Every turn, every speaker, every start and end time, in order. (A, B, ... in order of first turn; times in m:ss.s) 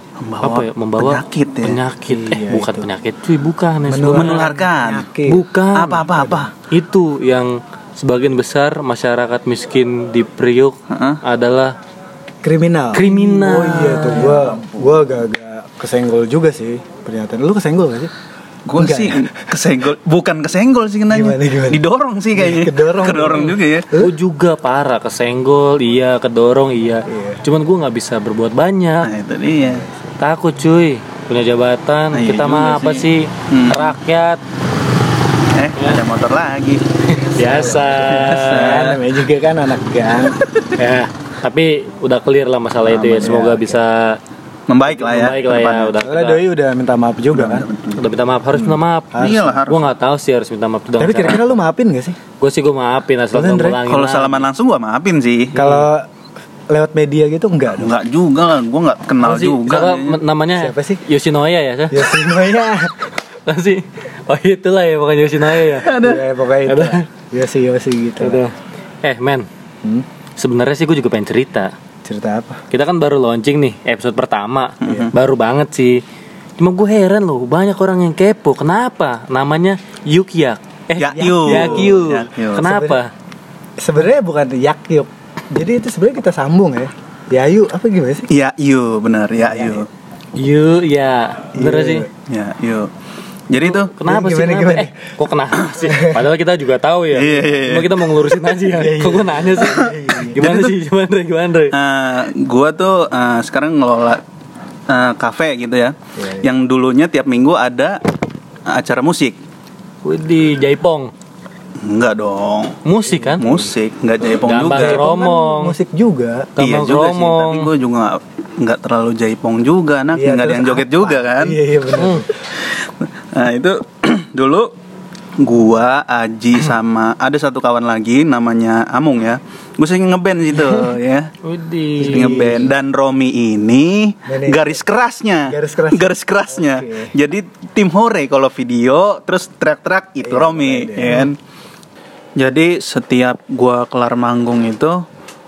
0:00.2-0:01.8 A
0:00.4-0:04.4 B
0:02.1-0:02.9 C
0:03.8-0:05.4 C
0:04.1-0:05.1 A
0:05.2-0:06.0 B
0:05.7-0:06.5 A
0:06.1-0:06.5 C
0:06.7-0:11.8 B
0:10.9-0:11.2 A
0:12.4-0:18.1 C
0:12.9-0:14.5 B
0:14.2-0:14.9 A
0:18.7-0:23.9 A
0:18.8-0:19.3 C
0:21.1-0:21.8 C
0:22.3-0:24.1 C
0:24.0-0:29.1 B
0:27.1-0:27.4 C
0:29.0-0:29.8 A
0:29.6-0:30.1 C
0:30.2-0:34.4 B
0:32.1-0:33.9 A
0:35.5-0:36.8 A
0:35.8-0:36.0 B
0:37.1-0:38.8 B
0:37.3-0:40.4 C
0:38.0-0:39.0 A
0:40.8-0:44.2 B
0:42.9-0:43.4 A
0:43.2-0:43.8 C
0:44.7-0:45.9 A
0:44.9-0:46.4 B
0:46.0-0:47.7 C
0:47.3-0:48.0 A
0:48.0-0:51.4 B
0:48.5-0:49.6 C
0:49.2-0:49.9 A
0:51.0-0:52.2 C
0:52.4-0:54.4 B
0:53.3-0:53.8 C
0:53.8-0:55.6 A
0:55.5-0:55.9 B
0:55.5-0:56.1 C
0:56.7-0:57.9 C
0:57.8-1:00.2 A
0:59.2-1:02.1 B
1:00.6-1:01.0 C
1:01.9-1:03.1 C
1:03.4-1:05.9 B
1:05.6-1:06.2 A
1:06.0-1:08.4 C
1:06.6-1:07.0 B
1:08.2-1:09.5 B
1:10.4-1:11.7 B
1:12.0-1:12.6 C
1:12.7-1:16.0 B
1:14.8-1:15.1 A
1:14.8-1:15.1 C
1:16.6-1:23.1 B
1:21.0-1:22.6 A
1:21.1-1:22.0 C
1:22.6-1:23.0 C
1:23.8-1:28.3 C
1:28.3-1:29.9 A
1:29.4-1:29.8 C
1:30.4-1:32.0 B
1:31.5-1:32.1 C
1:32.3-1:32.9 A
1:33.5-1:33.9 A
1:33.6-1:41.8 B
1:34.0-1:34.9 C
1:35.8-1:36.2 C
1:37.1-1:38.0 A
1:38.7-1:40.4 C
1:40.4-1:40.7 A
1:41.7-1:44.2 A
1:44.9-1:48.0 A
1:46.2-1:46.5 C
1:48.7-1:49.4 A
1:50.0-1:51.1 B
1:51.8-1:52.8 A
1:52.8-1:53.4 B
1:53.1-1:53.7 C
1:53.4-1:55.0 A
1:54.4-1:55.8 B
1:54.7-1:56.5 C
1:56.6-1:57.7 B
1:56.6-2:01.6 A
2:00.1-2:02.5 C
2:02.0-2:02.3 B
2:02.6-2:04.7 A
2:05.4-2:11.3 A
2:11.4-2:12.5 B
2:12.0-2:12.7 C
2:12.0-2:21.4 A
2:14.3-2:14.8 C
2:15.4-2:17.1 C
2:20.2-2:21.3 C
2:22.4-2:25.0 A